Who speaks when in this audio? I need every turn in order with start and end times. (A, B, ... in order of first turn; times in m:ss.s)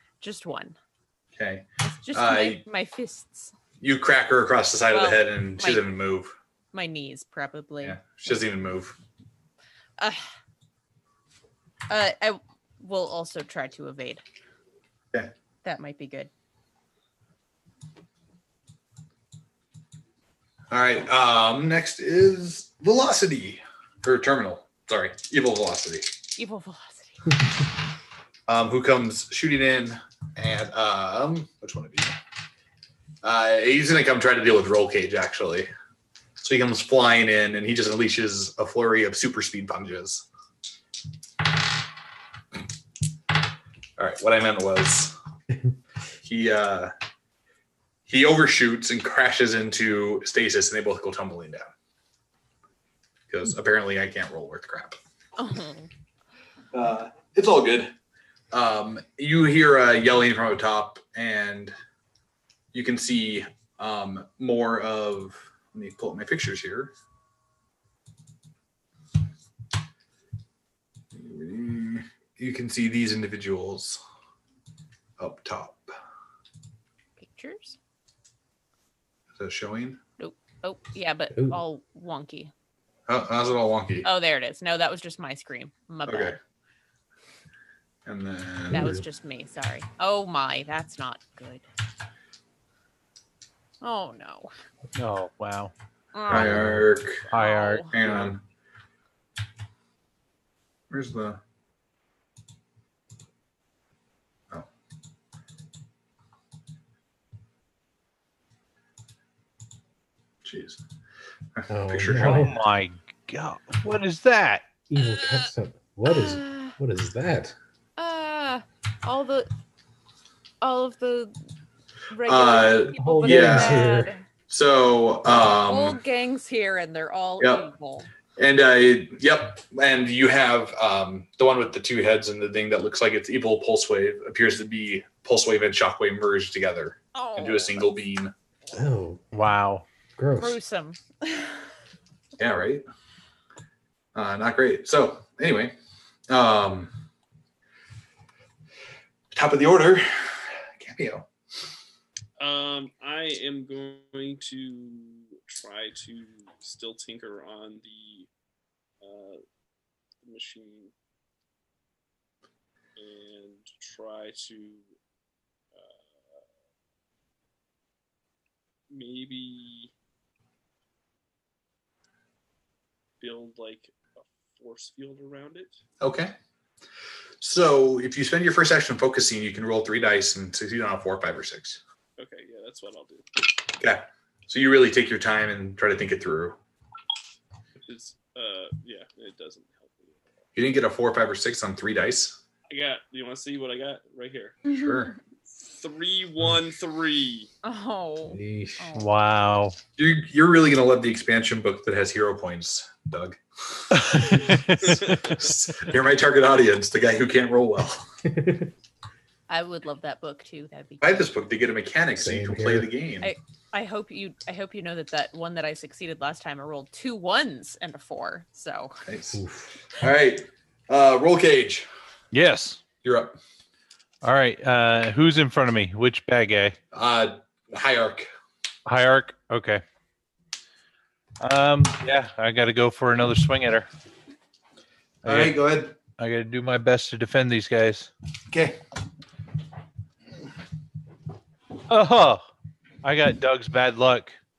0:00.2-0:00.8 A
0:01.4-0:02.6 B
0:01.8-0:03.5 A
0:03.8-0:06.3 B
0:04.9-0:05.8 A
0:06.7-0:08.2 A
0:07.8-0:09.0 B
0:11.9-0:14.2 A
0:15.6-0:16.3 A
0:20.7-0:26.1 B
0:26.4-0:27.3 A
0:28.5-0:32.2 B
0:33.2-0:35.7 B
0:36.4-0:40.3 B
0:44.0-0:45.1 B
0:46.2-0:46.9 B
0:48.1-0:51.7 B
0:53.3-0:55.0 B
0:55.4-0:55.9 A
0:56.7-0:57.9 B
0:58.5-1:01.7 B
1:02.7-1:06.9 B
1:11.1-1:14.0 B
1:15.2-1:15.9 B
1:17.2-1:17.8 A
1:19.4-1:20.0 B
1:20.2-1:22.5 A
1:23.1-1:24.1 B
1:24.0-1:26.4 A
1:26.0-1:26.4 B
1:28.0-1:29.0 B
1:28.7-1:31.6 A
1:28.7-1:29.0 C
1:33.8-1:34.5 A
1:35.0-1:35.7 D
1:36.1-1:36.8 A
1:36.3-1:37.3 B
1:37.3-1:37.9 D
1:37.3-1:37.9 A
1:37.9-1:38.4 B
1:40.9-1:41.4 B
1:50.4-1:50.8 B
1:51.6-1:52.5 B
1:51.7-1:52.6 C
1:52.1-1:54.8 D
1:54.9-1:57.6 C
1:56.1-1:56.7 A
1:58.0-1:59.5 A
2:00.6-2:01.4 A
2:02.1-2:04.2 A
2:02.2-2:03.9 B
2:02.9-2:04.1 C
2:04.5-2:06.0 B
2:05.3-2:08.1 A
2:08.4-2:18.3 B
2:17.1-2:17.9 A
2:18.7-2:19.3 C
2:19.3-2:19.8 D
2:20.2-2:20.6 C
2:20.4-2:21.6 A
2:22.4-2:22.8 B
2:24.1-2:25.8 B
2:26.3-2:26.9 B
2:29.3-2:31.3 B
2:32.4-2:38.3 E
2:39.0-2:39.4 E
2:40.2-2:40.9 E
2:43.0-2:44.8 E
2:45.7-2:46.4 E
2:48.9-2:49.9 E
2:53.2-2:55.8 E
2:56.0-2:56.4 B
2:57.4-3:01.8 B
3:02.2-3:03.3 E
3:03.8-3:06.6 B
3:07.8-3:10.2 E
3:10.6-3:12.4 B
3:12.7-3:14.6 E
3:14.6-3:15.1 B
3:14.7-3:15.1 A
3:15.6-3:17.5 E
3:17.6-3:19.1 A
3:18.3-3:18.9 C
3:18.9-3:19.8 D
3:20.0-3:28.1 B
3:23.9-3:25.2 D
3:28.2-3:28.7 C
3:29.5-3:31.2 A
3:31.0-3:33.3 B
3:32.2-3:32.9 C
3:33.2-3:39.0 A
3:39.1-3:39.4 B
3:39.3-3:39.7 C
3:39.9-3:41.9 B
3:42.3-3:42.8 D
3:43.0-3:43.4 B
3:44.2-3:46.8 D
3:46.9-3:48.3 B
3:48.8-3:49.8 D
3:51.4-3:53.9 D
3:55.2-3:56.0 B
3:55.2-3:58.1 D
3:58.5-3:58.8 B
4:01.9-4:02.4 D
4:03.0-4:04.4 D